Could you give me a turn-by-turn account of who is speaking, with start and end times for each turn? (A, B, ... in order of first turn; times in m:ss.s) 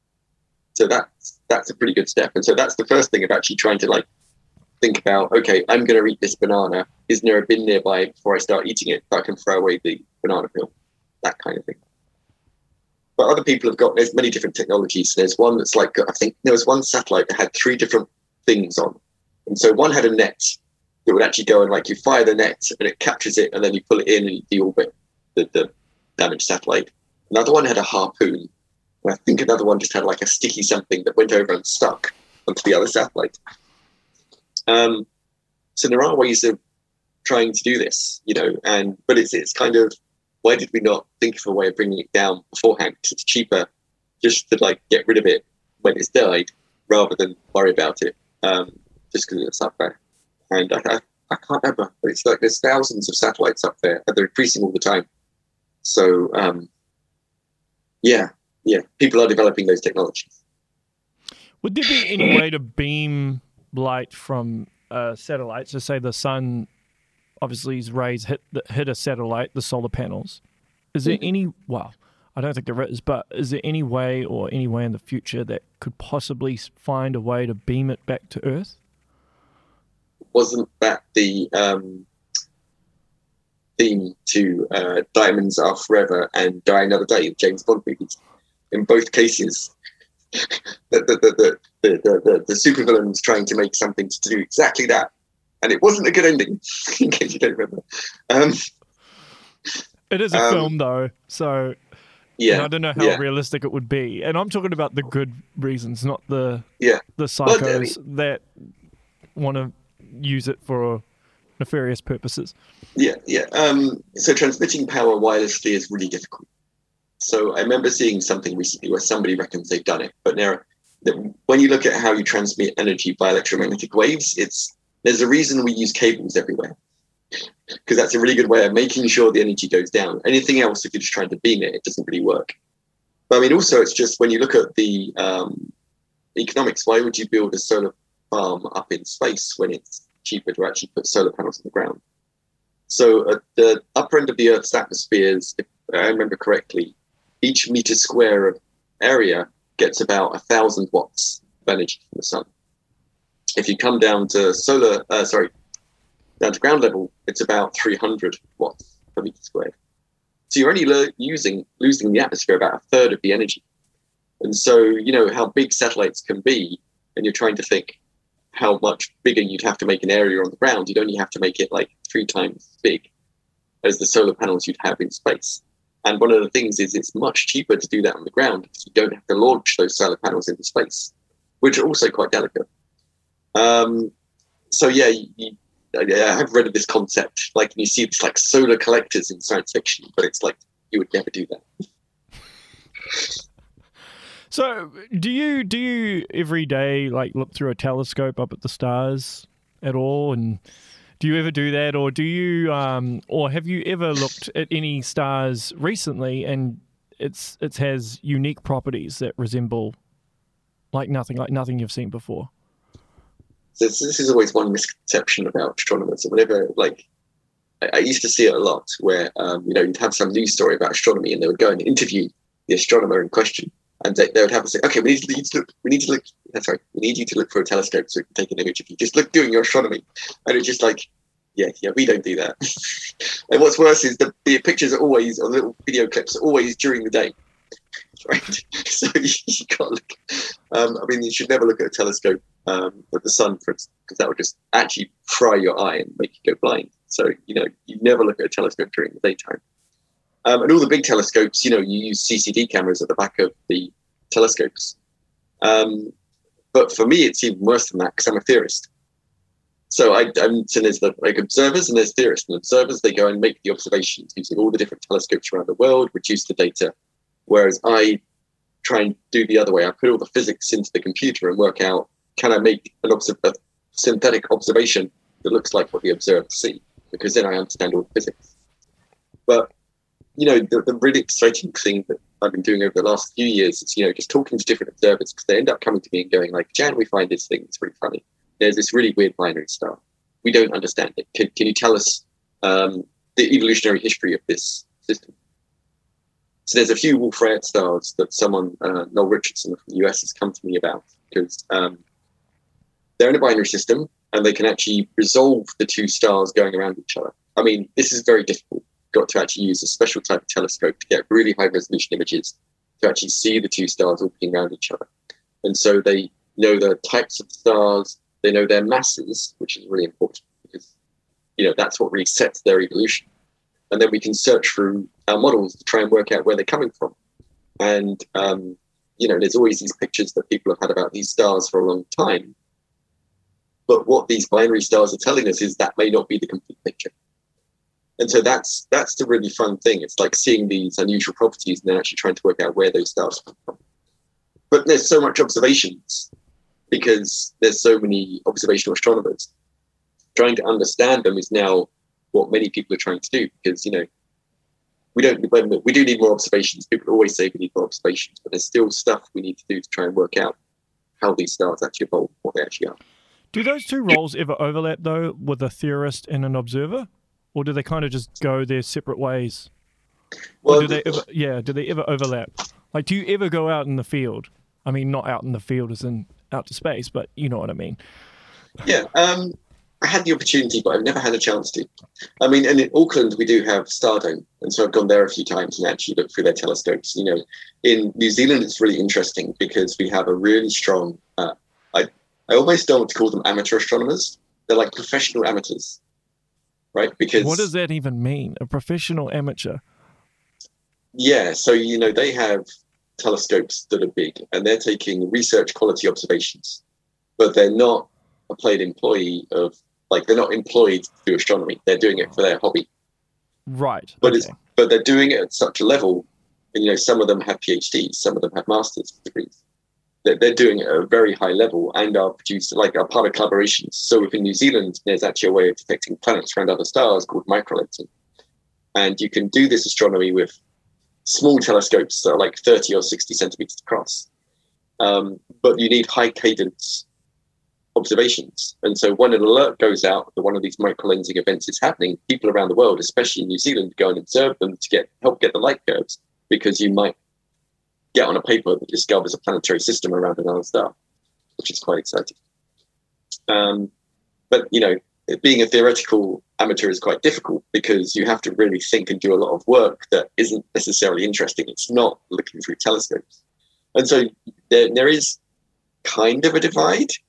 0:00.8-0:04.1 A
0:04.8-0:10.7 A
0:11.2-0:11.8 A
0:13.2-0:28.5 A
0:29.0-0:33.4 A
0:34.7-0:35.1 A
0:35.8-0:36.6 A
0:37.2-0:39.9 A
0:40.4-0:43.7 A
0:44.2-0:50.0 A
0:50.5-0:55.1 A
0:55.8-0:56.7 A
0:58.0-1:00.4 A
1:01.6-1:06.7 B
1:07.4-1:10.4 B
1:10.9-1:18.8 B
1:20.3-1:22.1 A
1:23.8-1:28.2 A
1:28.7-1:29.7 A
1:30.3-1:35.1 A
1:35.6-1:38.6 A
1:40.1-1:41.8 B
1:40.3-1:40.7 A
1:42.4-1:43.2 A
1:42.5-1:48.7 B
1:46.8-1:47.9 A
1:49.4-1:51.0 B
1:51.6-1:52.5 B
1:53.0-1:56.5 A
1:57.2-2:06.8 A
2:07.9-2:12.5 A
2:13.3-2:15.7 A
2:16.4-2:22.0 A
2:22.9-2:32.5 A
2:33.6-2:35.5 A
2:36.4-2:39.7 A
2:40.5-2:43.6 A
2:44.4-2:48.0 A
2:48.5-2:53.1 A
2:53.8-3:02.7 A
3:03.6-3:04.1 A
3:04.7-3:11.8 A
3:14.5-3:20.6 B
3:21.2-3:30.0 B
3:30.9-3:32.5 B
3:33.8-3:37.0 A
3:37.8-3:57.4 A
3:58.2-4:09.6 A
4:10.4-4:15.0 A
4:15.6-4:16.1 A
4:16.7-4:18.9 A
4:19.9-4:26.9 A
4:27.5-4:28.2 A
4:28.8-4:38.5 A
4:40.4-4:55.3 A
4:56.7-5:02.0 A
5:03.2-5:15.1 A
5:15.6-5:20.9 A
5:21.6-5:23.3 A
5:23.9-5:27.2 A
5:27.8-5:32.6 A
5:33.9-5:37.1 A
5:38.2-5:43.8 A
5:44.7-5:46.3 A
5:46.9-5:49.5 A
5:50.4-5:54.1 A
5:55.2-6:00.6 A
6:01.2-6:03.0 A
6:03.5-6:09.7 B
6:10.6-6:11.2 A
6:10.7-6:18.0 B
6:18.8-6:21.9 A
6:22.4-6:36.0 A
6:36.9-6:37.7 A
6:37.4-6:39.8 B
6:41.2-6:42.6 A
6:43.2-6:46.8 A
6:47.4-6:52.9 A
6:53.7-6:54.6 B
6:54.2-6:59.6 A
7:00.2-7:08.1 A
7:09.0-7:10.6 A
7:11.2-7:14.3 A
7:15.0-7:17.1 A
7:18.0-7:27.2 A
7:28.1-7:30.9 A
7:31.6-7:32.4 A
7:33.5-7:33.9 A
7:34.5-7:43.4 A
7:44.0-7:45.4 A
7:46.0-7:47.1 A